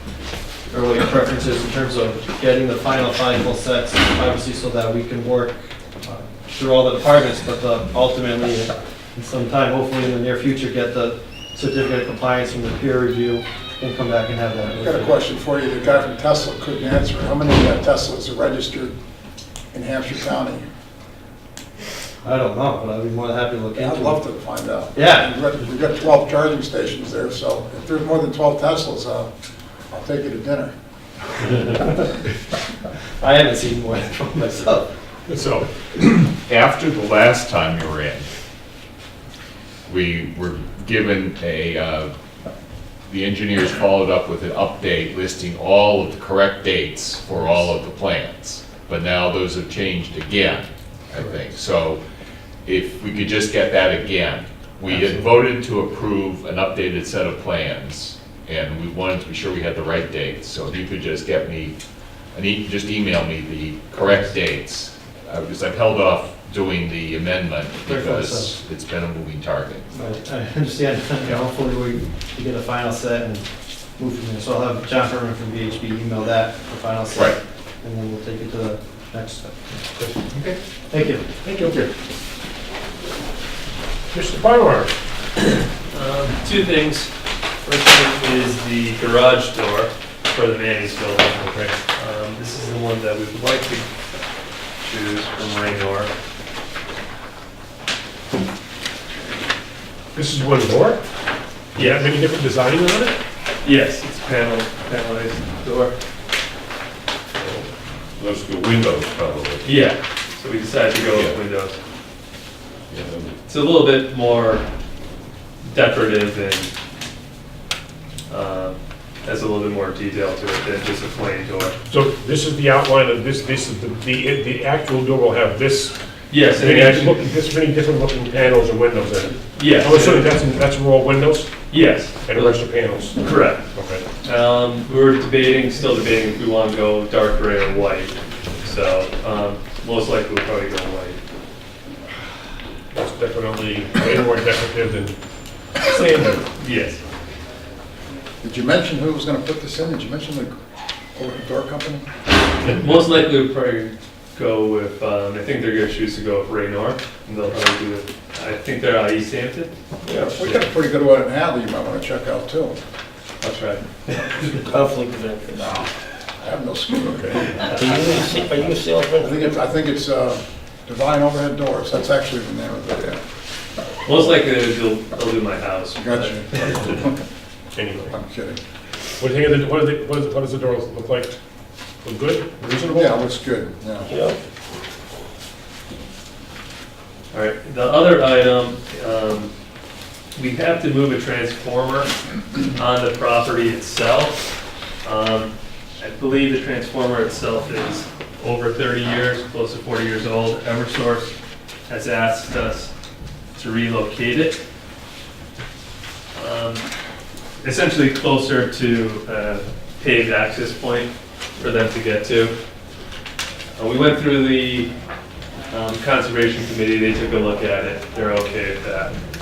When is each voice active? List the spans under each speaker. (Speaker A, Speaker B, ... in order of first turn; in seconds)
Speaker A: 0.7-15.1, 22.2-24.2, 24.9-25.3, 33.2-34.9, 67.8-68.5, 69.9-79.8, 80.9-81.2, 164.6-165.6
Speaker B: 14.7-18.9, 19.7-20.7, 23.7-29.3, 29.9-30.7, 148.4-150.5, 151.1-152.0, 160.3-162.8, 165.6-165.9, 166.4-167.9, 169.2-173.2, 175.9-177.1, 178.1-178.6, 182.8-184.1
Speaker C: 35.3-35.6, 81.4-81.9, 84.1-84.9, 91.4-91.7, 100.1-101.0, 101.7-103.2, 121.9-131.5, 132.2-133.2, 133.7-134.0, 142.9-145.2, 145.8-146.4, 167.2-167.6, 177.7-178.1, 179.2-181.3, 182.0-183.2
Speaker D: 36.0-38.3, 39.9-42.1, 43.1-52.0, 52.6-61.7, 62.3-69.9
Speaker E: 85.5-87.1, 87.6-93.9, 94.8-96.1, 101.8-102.0, 103.6-105.9, 109.6-111.8, 113.5-114.6, 115.6-116.7, 118.3-121.8, 126.3-127.2, 129.5-130.3, 131.7-132.6, 133.2-133.7, 134.2-141.2, 146.6-147.0, 152.6-159.7, 163.4-164.5, 174.0-177.0, 187.3-189.5, 190.3-192.1, 192.7-194.4, 195.0-201.3, 201.9-202.9, 203.5-204.6, 206.3-206.8, 207.6-212.5, 213.8-214.9, 215.7-219.2
Speaker F: 160.0-160.3, 167.7-169.5, 184.1-184.3